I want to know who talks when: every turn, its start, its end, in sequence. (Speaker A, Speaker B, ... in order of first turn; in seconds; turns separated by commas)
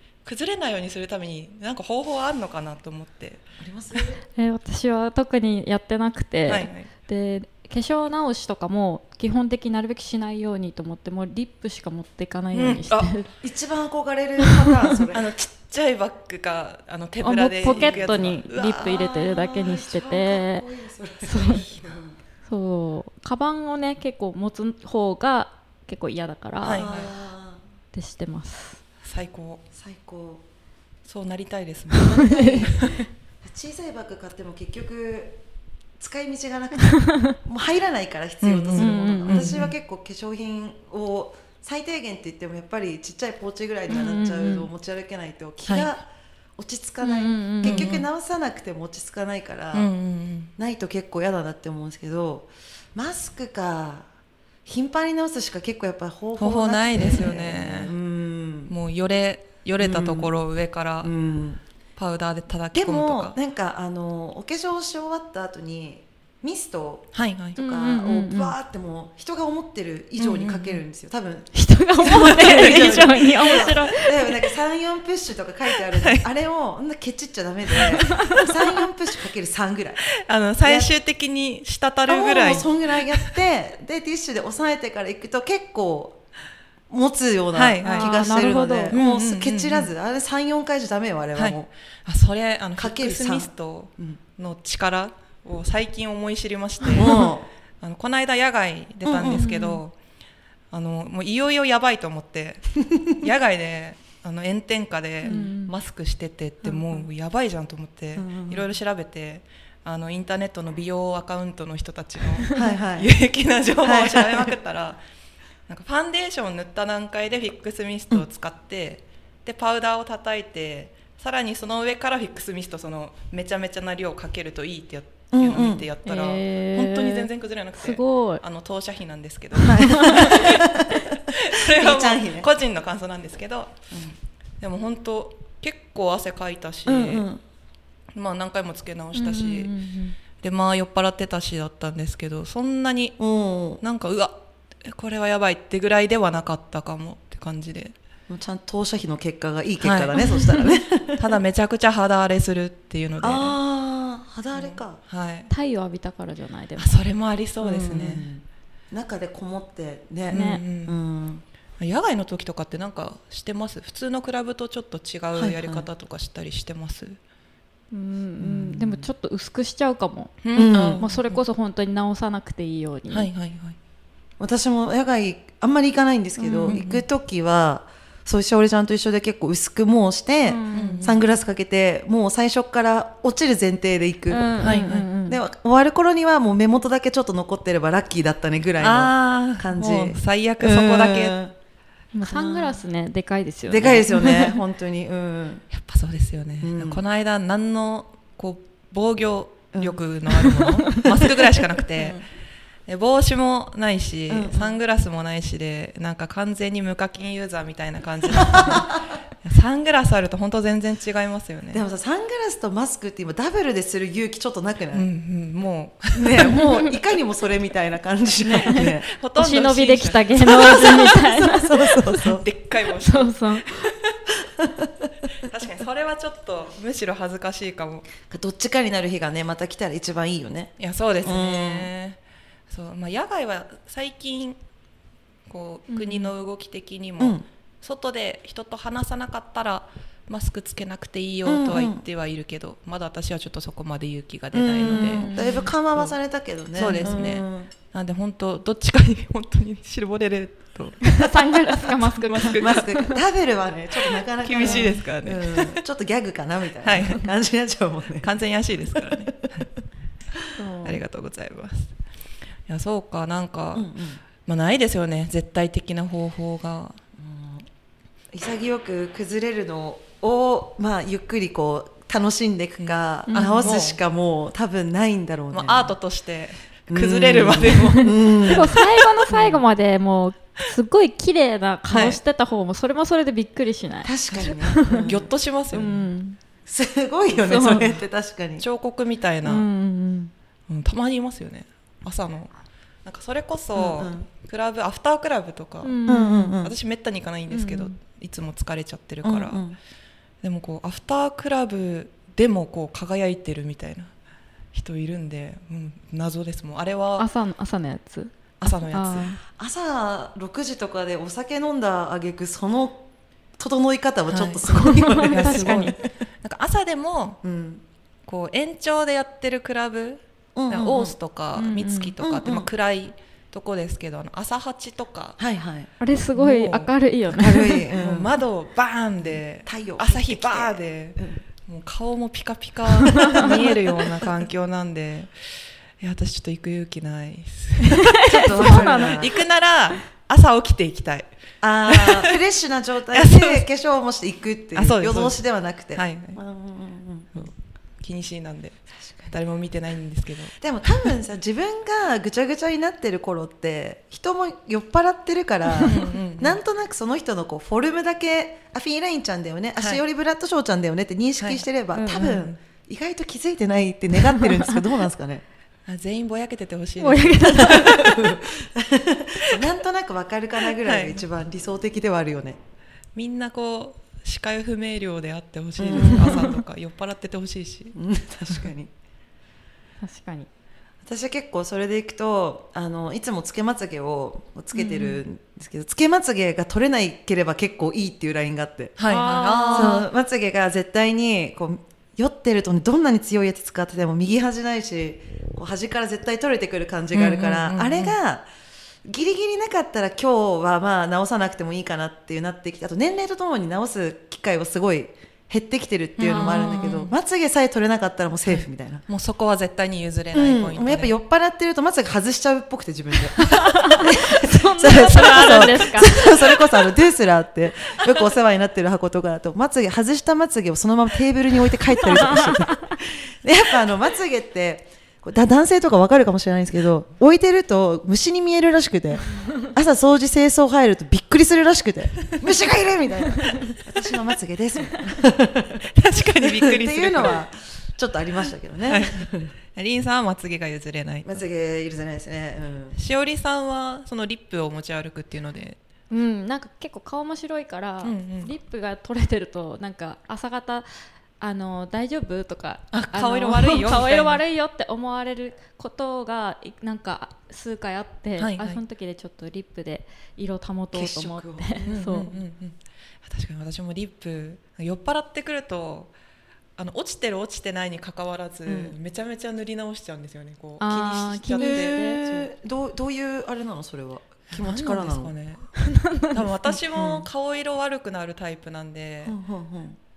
Speaker A: 0.2-3.4, Speaker B: 3.6-4.2, Speaker C: 4.4-13.3, Speaker A: 6.5-6.9, Speaker A: 12.5-13.2, Speaker B: 13.4-15.3, Speaker C: 14.5-14.8, Speaker A: 15.1-19.1, Speaker C: 17.2-20.6, Speaker B: 17.6-18.2, Speaker B: 18.8-22.2, Speaker C: 21.2-21.7, Speaker C: 22.5-26.9, Speaker A: 26.6-27.1, Speaker B: 26.7-27.6, Speaker C: 27.9-28.8, Speaker A: 29.0-29.6, Speaker B: 29.7-30.4, Speaker A: 31.1-33.0, Speaker B: 32.0-35.4, Speaker C: 32.1-32.8, Speaker B: 36.0-46.0, Speaker C: 36.9-37.3, Speaker A: 38.4-39.7, Speaker C: 38.8-39.5, Speaker C: 43.9-44.6, Speaker A: 45.7-45.9, Speaker B: 46.6-49.9, Speaker C: 47.0-47.9, Speaker A: 47.6-48.0, Speaker A: 49.7-50.5, Speaker B: 50.6-54.1, Speaker B: 54.6-58.7, Speaker A: 56.4-58.0, Speaker A: 58.7-61.1, Speaker B: 59.8-60.3, Speaker B: 61.0-61.6, Speaker A: 62.0-63.4, Speaker B: 62.7-80.1, Speaker A: 67.1-67.6, Speaker C: 67.6-68.6, Speaker A: 70.2-70.8, Speaker C: 71.5-74.4, Speaker A: 72.1-73.1, Speaker A: 75.9-76.3, Speaker C: 78.2-78.6, Speaker A: 80.1-83.3, Speaker B: 80.6-80.9, Speaker B: 82.1-86.2, Speaker B: 86.9-91.7, Speaker A: 87.5-88.3, Speaker C: 87.8-89.0, Speaker A: 88.9-89.9, Speaker A: 91.3-97.3, Speaker B: 92.8-94.2, Speaker C: 96.9-97.3, Speaker B: 96.9-97.5, Speaker A: 97.8-100.0, Speaker B: 99.0-99.5, Speaker C: 99.3-99.8, Speaker A: 100.7-115.0, Speaker C: 105.2-105.7, Speaker B: 106.7-107.0, Speaker B: 108.2-108.7, Speaker B: 112.5-113.1, Speaker B: 113.8-114.6, Speaker A: 115.7-133.8, Speaker B: 125.3-125.9, Speaker C: 126.0-128.4, Speaker B: 129.6-132.5, Speaker C: 129.8-130.3, Speaker A: 134.6-137.3, Speaker B: 136.9-137.4, Speaker A: 138.1-139.7, Speaker C: 139.2-140.2, Speaker A: 140.4-143.2, Speaker B: 143.2-143.8, Speaker A: 143.8-148.0, Speaker B: 148.3-151.4, Speaker A: 149.8-150.2, Speaker A: 151.2-153.6, Speaker B: 153.2-155.0, Speaker A: 154.5-155.5, Speaker C: 155.5-156.9, Speaker A: 156.8-158.3, Speaker B: 157.6-161.4, Speaker A: 160.3-161.0, Speaker C: 160.3-160.6, Speaker A: 161.8-167.2, Speaker B: 165.3-165.9, Speaker C: 167.9-173.3, Speaker B: 168.4-169.1, Speaker A: 170.4-171.4, Speaker B: 170.6-171.0, Speaker A: 173.1-173.8, Speaker B: 174.4-191.5, Speaker C: 176.4-176.8, Speaker A: 176.7-177.0, Speaker C: 180.4-181.0, Speaker A: 180.7-181.2, Speaker C: 184.3-185.4, Speaker A: 184.6-185.1, Speaker A: 188.8-191.4, Speaker C: 192.1-194.6, Speaker B: 192.2-192.8, Speaker B: 193.7-195.6, Speaker A: 195.7-202.2, Speaker B: 196.6-197.0, Speaker B: 199.7-200.7, Speaker B: 202.0-202.2, Speaker A: 202.9-211.8, Speaker B: 204.3-204.8, Speaker B: 208.4-208.8, Speaker B: 211.7-215.1, Speaker A: 214.9-216.7, Speaker B: 216.2-219.1, Speaker C: 216.5-216.8, Speaker A: 218.4-221.4, Speaker C: 219.4-222.3, Speaker B: 221.5-222.4, Speaker A: 222.1-224.2, Speaker C: 223.0-223.9, Speaker B: 224.6-224.9, Speaker A: 225.3-228.1, Speaker B: 228.3-231.9, Speaker A: 230.8-232.2, Speaker A: 232.7-234.6, Speaker A: 235.5-245.4, Speaker C: 235.9-236.3, Speaker B: 241.4-242.1, Speaker B: 244.5-247.7, Speaker C: 244.9-245.7, Speaker A: 246.7-252.9, Speaker C: 246.8-247.2, Speaker C: 251.1-253.2, Speaker B: 252.6-258.3, Speaker A: 254.4-255.8, Speaker C: 254.6-255.0, Speaker A: 256.8-257.3, Speaker A: 258.2-259.7, Speaker B: 259.0-259.6, Speaker C: 260.6-261.0, Speaker A: 260.9-261.9, Speaker A: 262.7-263.9, Speaker B: 263.7-264.2, Speaker A: 264.4-267.0, Speaker B: 267.2-267.7, Speaker B: 268.3-275.9, Speaker A: 272.8-274.0, Speaker C: 273.3-273.7, Speaker A: 275.5-279.6, Speaker B: 276.9-278.8, Speaker C: 277.9-285.1, Speaker A: 281.9-282.2, Speaker B: 284.0-285.9, Speaker A: 285.0-286.0, Speaker C: 285.7-286.4, Speaker B: 286.7-288.6, Speaker C: 287.4-288.0, Speaker A: 288.6-289.7, Speaker C: 289.4-290.3, Speaker A: 290.7-292.5, Speaker A: 293.1-299.6, Speaker B: 293.8-294.3, Speaker C: 295.8-296.6, Speaker B: 296.1-296.8, Speaker C: 297.5-298.0, Speaker B: 299.2-299.8, Speaker A: 300.4-304.1, Speaker A: 304.7-307.3, Speaker C: 307.2-309.4, Speaker A: 308.6-309.3, Speaker B: 309.4-313.1, Speaker B: 313.6-316.1, Speaker A: 314.3-314.7, Speaker C: 314.7-316.0, Speaker A: 315.2-317.4, Speaker B: 317.4-317.8, Speaker A: 318.3-325.4, Speaker B: 320.6-321.2, Speaker C: 321.6-322.1, Speaker B: 322.2-322.7, Speaker B: 325.4-325.9, Speaker C: 326.0-327.9, Speaker A: 326.4-326.9, Speaker B: 327.3-328.3, Speaker A: 327.5-341.3, Speaker B: 329.2-331.4, Speaker B: 333.1-334.3, Speaker C: 338.2-339.3, Speaker B: 338.3-339.3, Speaker B: 341.6-347.5, Speaker A: 341.9-342.3, Speaker A: 343.1-343.6, Speaker A: 344.8-346.4, Speaker A: 347.4-351.1, Speaker B: 349.0-349.3, Speaker B: 350.6-365.4, Speaker A: 355.8-356.6, Speaker A: 361.4-362.6, Speaker C: 362.0-362.3, Speaker A: 365.9-368.3, Speaker C: 367.0-368.0, Speaker B: 367.7-372.6, Speaker A: 370.8-371.2, Speaker A: 373.1-378.0, Speaker B: 375.8-376.6, Speaker C: 376.0-376.5, Speaker B: 377.9-378.9, Speaker C: 380.0-380.5, Speaker B: 381.1-389.0, Speaker C: 384.7-385.2, Speaker A: 389.0-390.1, Speaker C: 389.1-390.1, Speaker B: 389.7-398.5, Speaker A: 397.1-398.2, Speaker B: 399.1-409.1, Speaker A: 406.2-407.1, Speaker C: 406.3-406.9, Speaker A: 408.5-411.1, Speaker B: 410.3-435.9, Speaker C: 413.4-416.2, Speaker A: 414.9-416.5, Speaker A: 435.9-437.4, Speaker B: 436.4-439.5, Speaker A: 438.9-441.4, Speaker B: 441.2-443.0, Speaker A: 443.0-445.8, Speaker C: 446.1-450.9, Speaker A: 448.0-448.5, Speaker C: 451.4-462.4, Speaker A: 452.9-454.4, Speaker A: 458.4-458.8, Speaker B: 460.9-462.0, Speaker A: 461.9-466.1, Speaker A: 466.8-472.5, Speaker B: 468.7-469.0, Speaker C: 470.8-472.2, Speaker B: 471.6-475.4, Speaker A: 474.5-479.4, Speaker C: 475.8-476.3, Speaker B: 476.9-477.3, Speaker B: 479.2-480.0